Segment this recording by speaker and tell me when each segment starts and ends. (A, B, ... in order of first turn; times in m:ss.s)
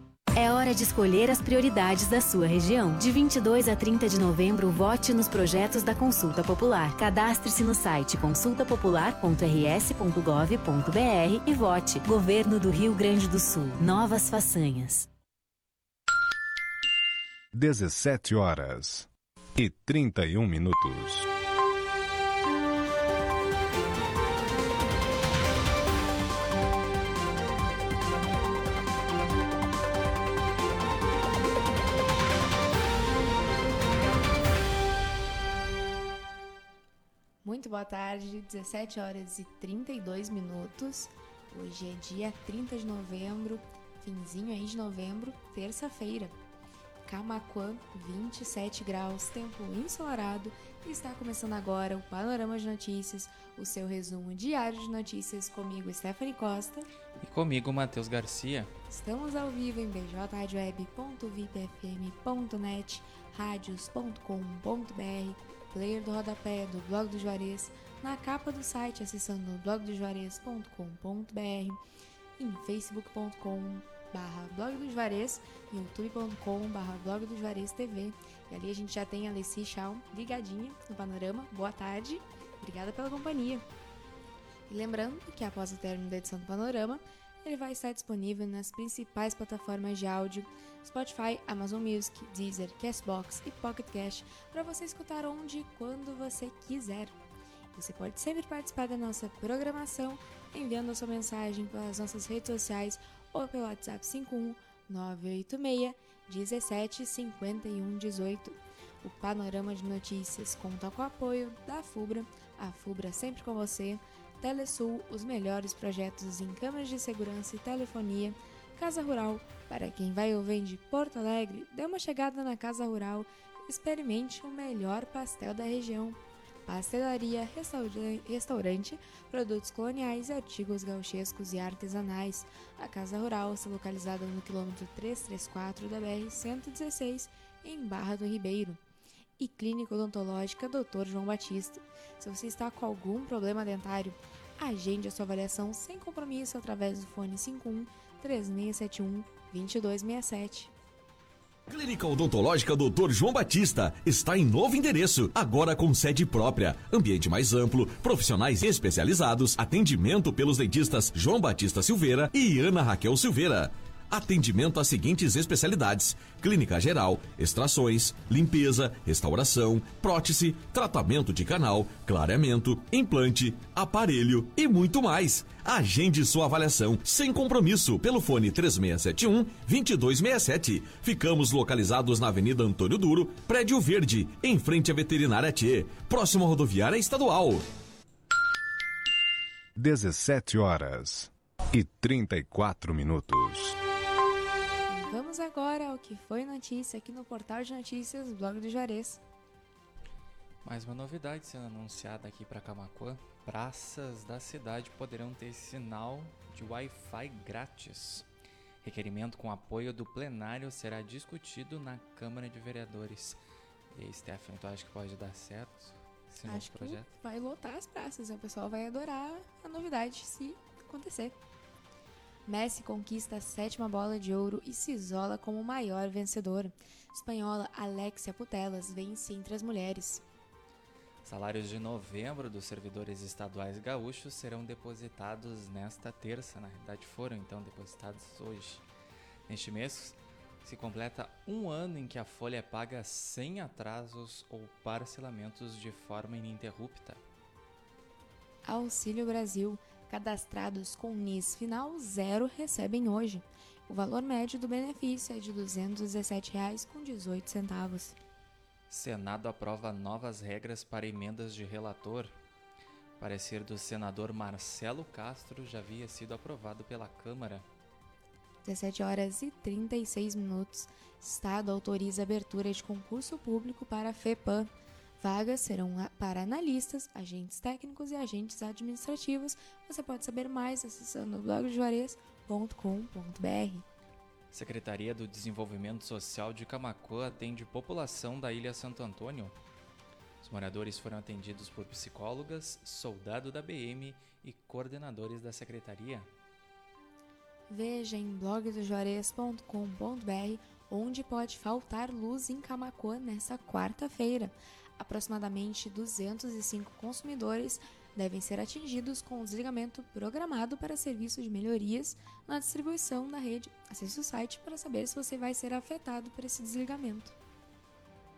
0:00.3-0:15.1 A
0:17.5-0:21.3 B
0:37.4-0:46.3 C
0:47.0-0:56.9 C
0:57.2-0:58.7 D
0:58.9-1:11.8 C
1:12.4-1:23.6 C
1:24.7-1:37.2 C
1:37.7-2:18.8 C
2:19.4-2:30.7 C
2:31.7-3:07.6 E
3:09.8-3:13.8 B
3:14.9-3:19.2 C
3:20.6-3:28.2 D
3:28.8-3:33.4 D
3:33.9-3:37.1 D
3:36.4-3:41.4 C
3:42.4-3:50.2 C
3:51.2-3:58.8 D
3:59.5-4:07.2 D
4:08.6-4:18.2 C
4:18.9-4:22.4 D
4:23.2-4:27.6 D
4:28.6-4:43.8 C
4:44.5-4:49.6 D
4:50.4-4:56.3 D
4:57.7-5:17.3 C